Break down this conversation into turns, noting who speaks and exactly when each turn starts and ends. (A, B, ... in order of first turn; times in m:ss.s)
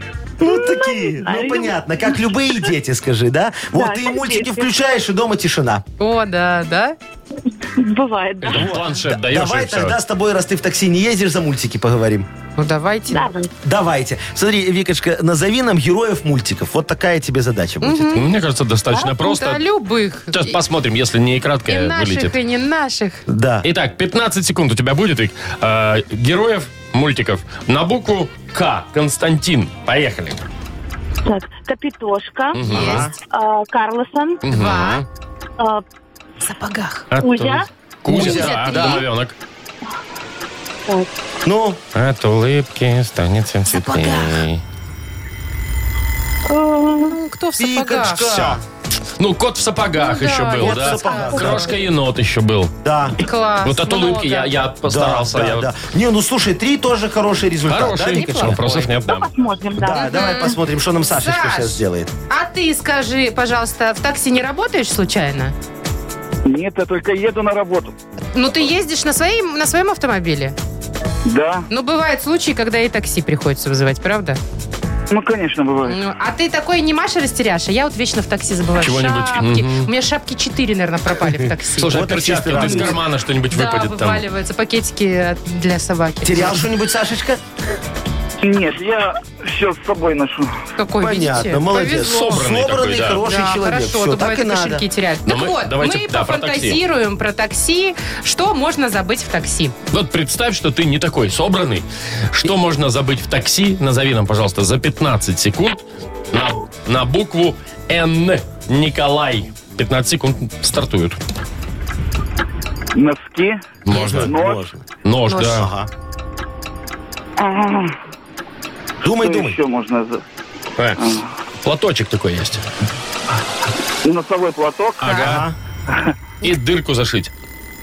0:00.4-0:05.8 A
0:00.4-0:02.7 B
0:03.8-0:04.7 B
0:06.0-0:07.0 C
0:07.8-0:08.7 B
0:08.4-0:10.0 D
0:08.5-0:12.3 A
0:12.6-0:13.3 C
0:13.1-0:13.5 B
0:13.6-0:18.2 A
0:17.8-0:18.3 C
0:18.1-0:19.6 D
0:19.0-0:20.6 C
0:20.3-0:22.4 D
0:21.7-0:23.2 C
0:23.3-0:23.7 A
0:23.6-0:30.4 D
0:31.2-0:32.8 B
0:32.5-0:33.1 D
0:32.7-0:33.1 C
0:32.7-0:33.1 A
0:33.3-0:34.4 B
0:34.4-0:35.1 D
0:34.5-0:35.0 C
0:36.4-0:37.1 C
0:37.1-0:39.4 D
0:37.2-0:37.7 B
0:38.1-0:39.0 A
0:38.1-0:39.0 C
0:41.4-0:41.8 A
0:41.9-0:44.6 D
0:43.7-0:44.4 C
0:46.5-0:47.2 B
0:47.0-0:48.4 C
0:47.6-0:48.6 A
0:48.2-0:48.6 D
0:49.2-0:52.8 D
0:50.0-0:51.7 C
0:50.6-0:51.8 A
0:52.8-0:53.2 A
0:53.2-0:54.6 C
0:53.6-0:55.7 D
0:54.9-0:58.6 A
0:57.7-0:59.3 D
0:58.1-0:58.9 C
0:59.0-1:00.4 B
0:59.8-1:02.1 A
0:59.9-1:00.6 C
1:01.1-1:05.5 C
1:06.4-1:08.0 E
1:08.3-1:10.6 C
1:11.2-1:11.7 E
1:11.7-1:14.4 C
1:15.1-1:16.0 E
1:15.9-1:23.0 C
1:18.8-1:19.9 D
1:21.3-1:23.0 A
1:21.8-1:24.2 D
1:23.5-1:26.6 C
1:26.2-1:27.4 A
1:28.4-1:30.6 E
1:30.8-1:32.4 C
1:31.0-1:34.8 A
1:32.0-1:33.2 D
1:33.2-1:39.8 C
1:35.3-1:36.8 D
1:39.9-1:51.2 D
1:52.9-1:54.7 E
1:53.9-1:54.3 D
1:53.9-1:55.9 A
1:55.0-1:55.7 D
1:55.3-1:55.6 C
1:57.4-1:58.0 E
1:59.0-1:59.6 A
1:59.0-2:00.2 E
2:01.0-2:01.3 E
2:01.6-2:02.6 D
2:04.0-2:05.2 E
2:05.0-2:05.5 D
2:05.2-2:05.6 A
2:06.4-2:07.3 D